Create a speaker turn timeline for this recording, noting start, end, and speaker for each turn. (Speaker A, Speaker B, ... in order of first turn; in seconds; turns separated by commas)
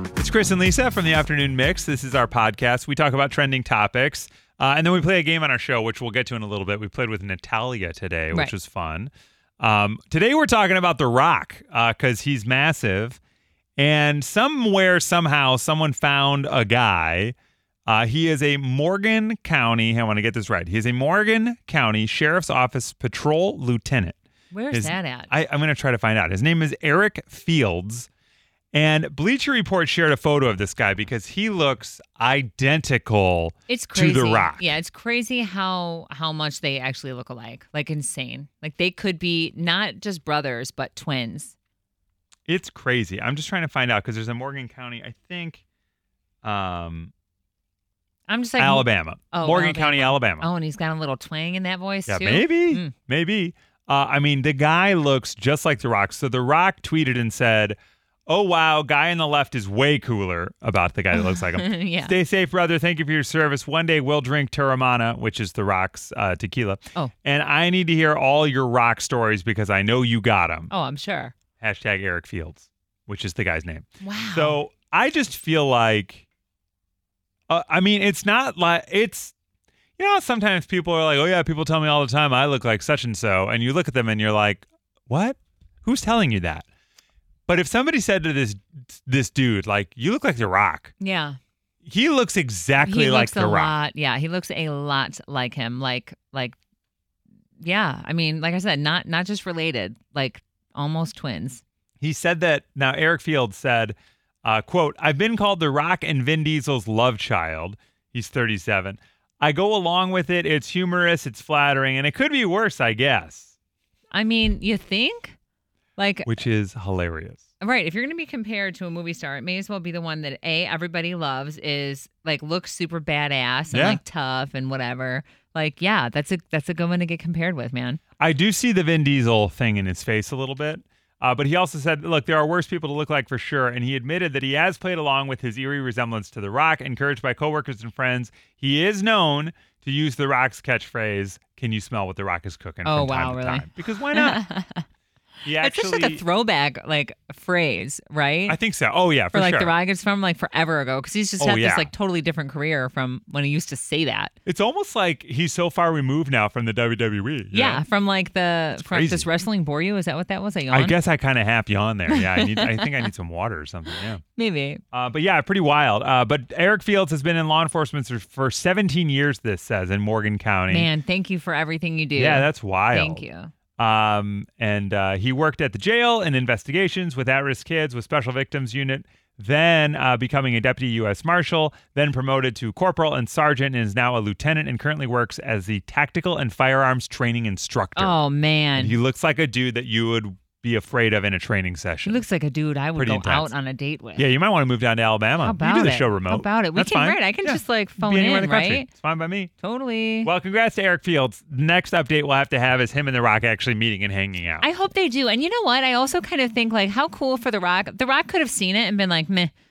Speaker A: 0.2-13.2, Speaker A: 13.8-17.4, Speaker A: 17.9-24.2, Speaker B: 24.5-25.3, Speaker A: 24.7-28.1, Speaker A: 28.7-34.7, Speaker B: 33.7-41.5, Speaker A: 42.5-45.6, Speaker A: 46.4-47.1, Speaker B: 48.3-52.9, Speaker A: 48.6-50.5, Speaker A: 52.1-57.8, Speaker A: 58.3-70.7, Speaker B: 61.1-62.1, Speaker B: 70.7-71.3, Speaker A: 71.6-76.2, Speaker B: 74.0-74.6, Speaker A: 77.5-79.3, Speaker A: 80.0-86.7, Speaker A: 87.5-90.9, Speaker B: 91.0-91.4, Speaker A: 91.8-93.7, Speaker B: 92.8-96.6, Speaker B: 97.6-101.6, Speaker A: 102.0-113.5, Speaker B: 114.1-115.3, Speaker B: 116.0-116.4, Speaker A: 116.3-117.4, Speaker B: 117.6-128.0, Speaker A: 123.7-124.0, Speaker A: 128.2-144.4, Speaker B: 142.8-144.8, Speaker A: 145.4-146.2, Speaker B: 145.6-148.6, Speaker A: 148.5-149.7, Speaker B: 149.3-154.3, Speaker A: 151.4-151.9, Speaker A: 154.5-157.8, Speaker B: 157.5-161.0, Speaker A: 158.8-159.3, Speaker A: 160.7-164.2, Speaker B: 162.1-163.1, Speaker B: 164.3-164.8, Speaker A: 164.9-170.9, Speaker B: 170.7-173.5, Speaker A: 172.2-173.2, Speaker A: 173.8-188.2, Speaker B: 188.0-188.9, Speaker A: 188.8-192.2, Speaker B: 192.1-194.3, Speaker A: 193.0-193.5, Speaker A: 194.2-199.5, Speaker B: 195.4-198.9, Speaker B: 199.6-200.3, Speaker A: 200.2-204.7, Speaker B: 204.6-209.5